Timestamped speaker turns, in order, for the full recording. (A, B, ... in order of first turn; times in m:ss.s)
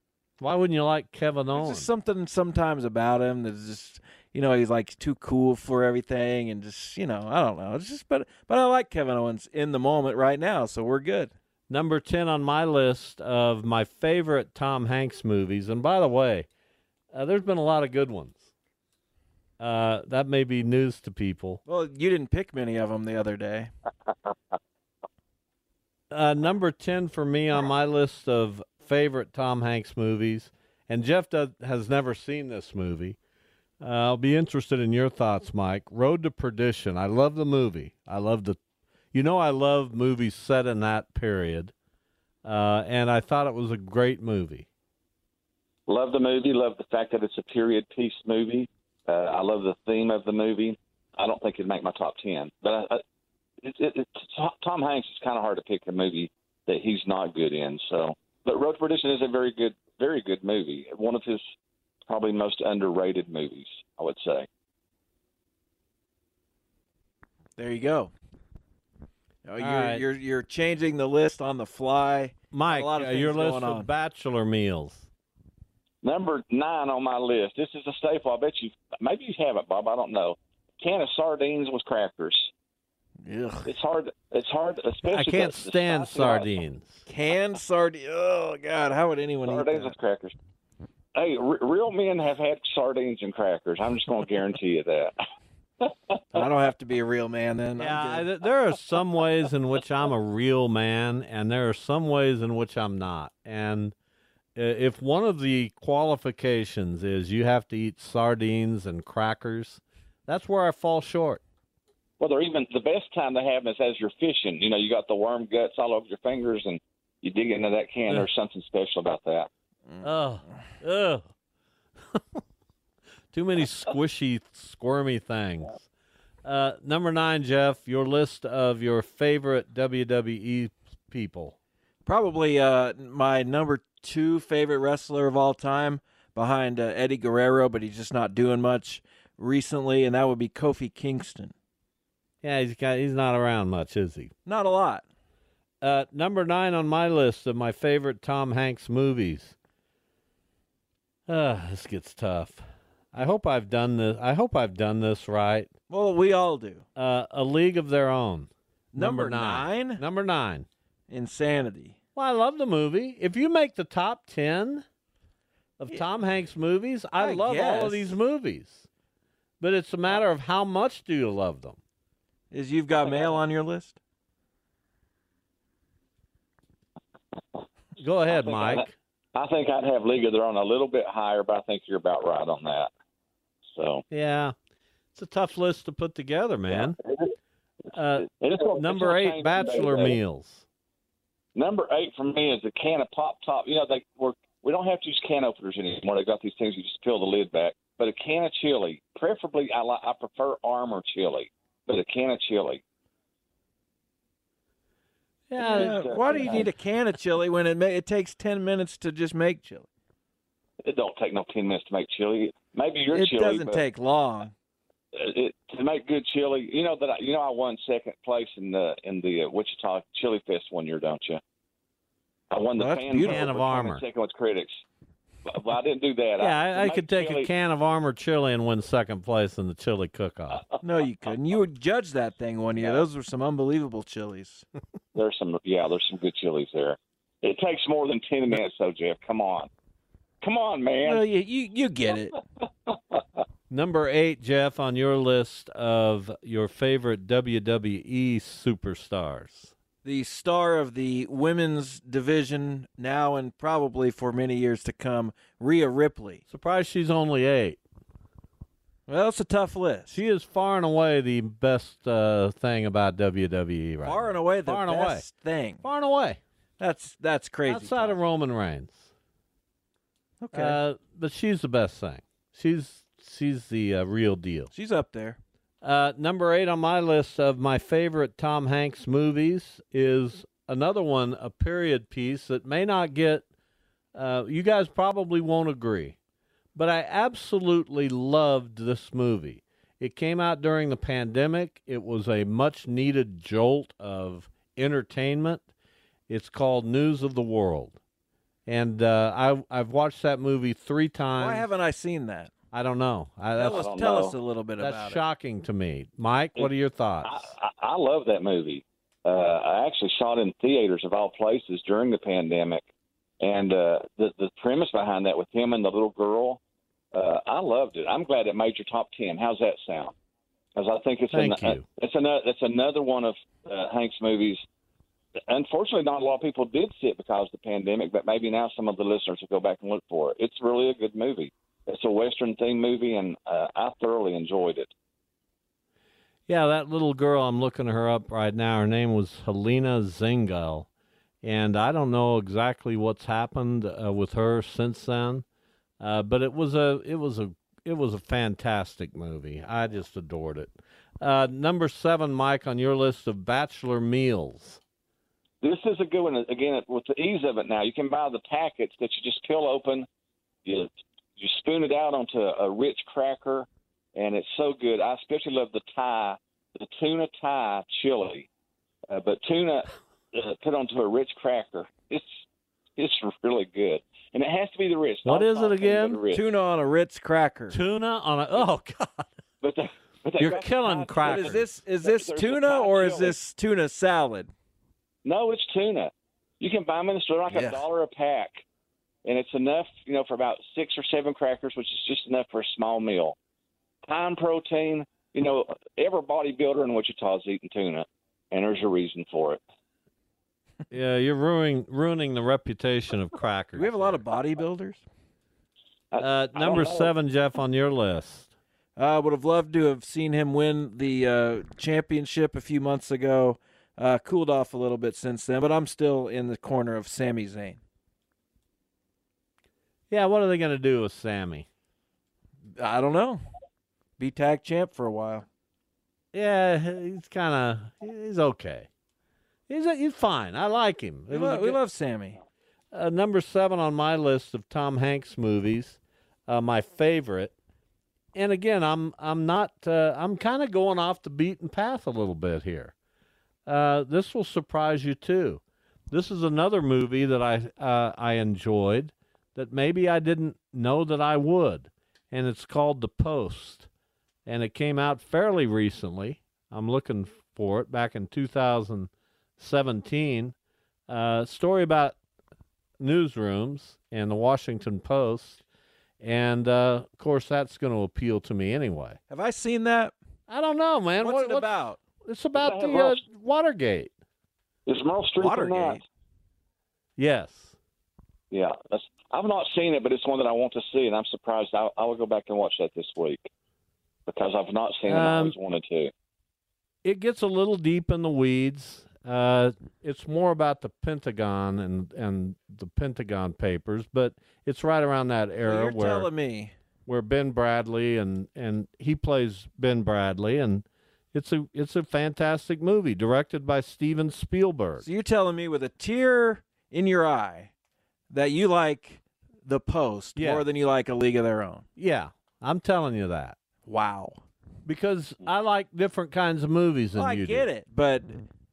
0:00.4-0:01.9 A
0:01.5-0:11.3 B
0:11.7-0:16.5 A
0:17.1-0:18.5 A
0:19.6-0:21.6 A
0:21.7-0:23.7 B
0:26.1-0:33.2 A
0:33.8-0:38.6 A
0:39.1-0:41.7 A
0:42.4-0:44.7 A
0:45.9-0:53.0 C
0:53.6-1:01.4 C
1:02.1-1:04.5 C
1:07.6-1:08.1 B
1:09.4-1:13.9 B
1:09.6-1:10.0 A
1:12.5-1:15.1 A
1:16.0-1:22.5 C
1:23.2-1:23.7 B
1:23.6-1:26.5 C
1:25.0-1:27.1 A
1:27.1-1:29.9 B
1:29.4-1:30.4 C
1:31.2-1:35.2 C
1:35.8-1:36.4 C
1:36.3-1:38.3 B
1:37.8-1:43.9 A
1:44.6-1:51.4 A
1:52.2-1:59.5 C
2:00.0-2:01.3 A
2:02.1-2:02.4 A
2:03.3-2:05.9 A
2:06.4-2:11.6 A
2:12.1-2:21.5 B
2:22.4-2:24.3 A
2:24.5-2:25.0 B
2:25.8-2:29.6 A
2:31.3-2:35.7 A
2:35.9-2:36.8 B
2:37.0-2:40.7 A
2:38.9-2:40.0 B
2:41.1-2:42.0 B
2:42.2-2:44.8 A
2:45.8-2:48.9 A
2:47.2-2:48.1 B
2:49.6-2:51.8 A
2:52.5-2:54.0 B
2:53.0-2:53.3 C
2:58.0-2:58.9 A
2:58.3-3:02.9 C
3:03.8-3:04.0 C
3:04.1-3:04.6 A
3:05.1-3:07.0 A
3:06.7-3:07.3 C
3:07.9-3:10.6 A
3:08.2-3:10.2 C
3:11.6-3:22.8 C
3:25.5-3:26.6 A
3:25.6-3:29.9 B
3:25.6-3:26.7 C
3:30.8-3:33.8 C
3:33.1-3:34.5 B
3:35.1-3:41.4 C
3:42.5-3:44.8 C
3:42.8-3:43.5 B
3:43.2-3:44.0 A
3:45.5-3:47.5 C
3:46.4-3:50.6 A
3:50.8-3:54.6 B
3:52.8-3:53.0 C
3:55.1-3:59.7 C
4:00.4-4:01.2 C
4:01.0-4:02.4 B
4:02.9-4:03.2 C
4:03.7-4:09.7 A
4:10.0-4:16.4 B
4:16.5-4:17.8 A
4:19.1-4:20.2 B
4:20.1-4:25.2 A
4:24.0-4:25.8 B
4:25.8-4:26.4 A
4:26.8-4:28.2 B
4:27.6-4:29.1 A
4:30.4-4:30.8 B
4:30.5-4:34.7 A
4:34.7-4:35.4 B
4:35.8-4:43.5 A
4:44.1-4:46.2 A
4:46.8-4:55.7 A
4:56.3-4:58.0 A
4:58.6-5:01.7 A
5:01.4-5:02.5 B
5:02.7-5:03.9 A
5:03.6-5:05.2 B
5:03.7-5:04.4 C
5:04.8-5:07.5 A
5:07.2-5:12.9 C
5:13.4-5:16.6 C
5:17.1-5:20.1 C
5:20.8-5:24.6 C
5:21.3-5:21.8 A
5:25.5-5:34.9 C
5:36.5-5:40.9 A
5:41.4-5:45.4 A
5:46.0-5:54.8 A
5:55.6-6:00.1 C
6:00.6-6:08.5 C
6:09.1-6:12.4 C
6:13.0-6:16.5 C
6:15.2-6:16.2 A
6:16.3-6:17.8 B
6:17.7-6:19.3 A
6:19.6-6:23.4 C
6:20.4-6:21.6 A
6:21.2-6:24.5 B
6:25.2-6:28.6 C
6:27.5-6:27.8 B
6:29.2-6:33.4 C
6:34.1-6:39.6 C
6:40.9-6:44.2 A
6:43.8-6:45.0 B
6:46.1-6:47.1 C
6:46.2-6:48.5 A
6:49.0-6:57.8 B
7:00.1-7:01.7 A
7:02.8-7:03.4 B
7:04.2-7:05.5 B
7:06.3-7:08.9 A
7:09.7-7:11.8 A
7:11.3-7:12.4 B
7:12.9-7:17.5 A
7:18.4-7:22.9 A
7:23.6-7:33.9 A
7:34.5-7:40.6 A
7:41.1-7:42.2 A
7:43.0-7:45.6 A
7:46.2-7:49.2 A
7:49.3-7:50.1 B
7:50.5-7:54.1 A
7:51.2-7:52.0 B
7:52.6-7:53.2 C
7:54.9-7:56.0 C
7:55.4-7:56.0 B
7:57.2-7:57.8 A
7:58.5-8:03.5 C
8:04.3-8:06.1 C
8:05.1-8:05.6 A
8:07.0-8:16.3 A
8:15.6-8:16.7 B
8:17.1-8:25.1 A
8:25.0-8:27.7 B
8:28.3-8:31.8 B
8:30.4-8:30.6 A
8:32.0-8:33.6 A
8:33.9-8:34.4 B
8:34.9-8:37.7 A
8:37.1-8:38.4 B